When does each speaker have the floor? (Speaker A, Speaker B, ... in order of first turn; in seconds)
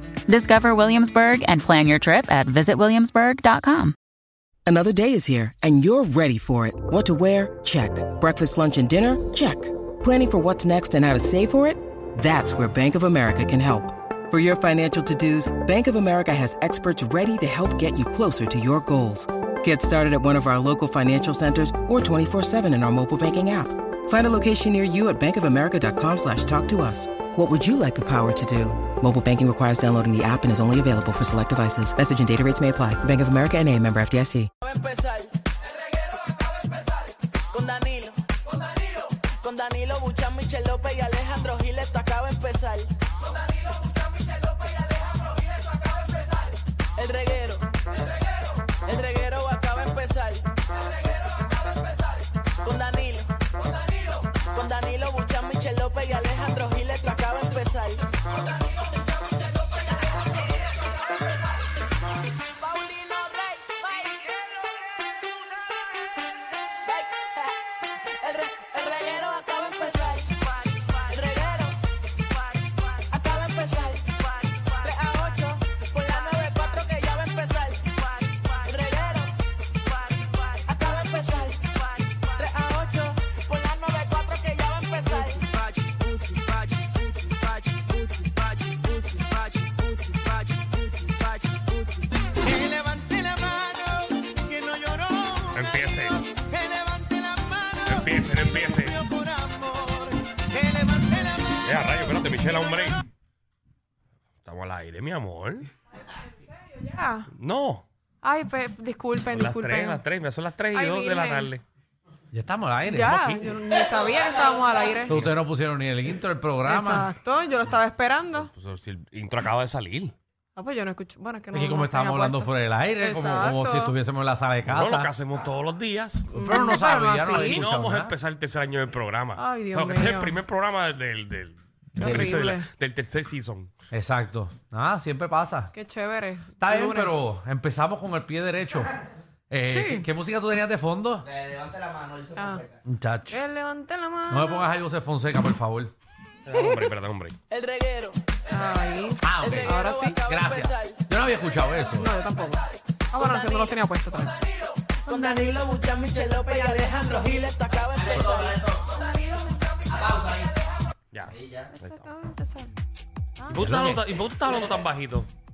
Speaker A: 0.3-4.0
Speaker B: 4.7-34.5
Speaker C: 34.6-35.3, 37.5-38.2, 39.4-42.9, 47.0-47.7, 48.8-50.5, 52.6-53.3, 54.5-58.1, 62.6-64.3, 66.9-67.5, 68.1-71.8, 72.7-79.4, 80.0-86.8, 87.8-91.7, 92.4-95.5, 96.5-97.8, 99.1-101.5, 147.5-148.2, 149.4-151.0, 153.3-153.7, 155.1-158.7
Speaker D: 95.5-96.3, 97.8-99.1, 101.6-103.0, 104.4-105.7, 107.3-107.9, 109.3-111.6, 115.1-115.3, 118.3-120.2, 124.7-126.5, 127.2-133.7, 146.5-147.4, 161.1-162.1, 163.5-165.3
Speaker E: 106.5-107.3, 108.2-110.0, 110.7-111.5, 112.9-115.2, 116.7-118.5, 120.6-122.5, 123.0-124.0, 126.3-127.7, 129.4-130.4, 132.0-132.7, 135.7-137.2, 139.7-140.1, 142.3-142.7, 143.3-144.7, 148.5-150.2, 151.9-154.4, 161.9-162.7
Speaker F: 112.3-113.4, 115.1-117.1, 121.5-125.1, 126.3-128.2, 132.0-132.3, 133.9-135.7, 136.6-138.9, 139.5-141.3, 142.9-143.4, 144.3-145.9, 149.2-152.1, 163.5-164.0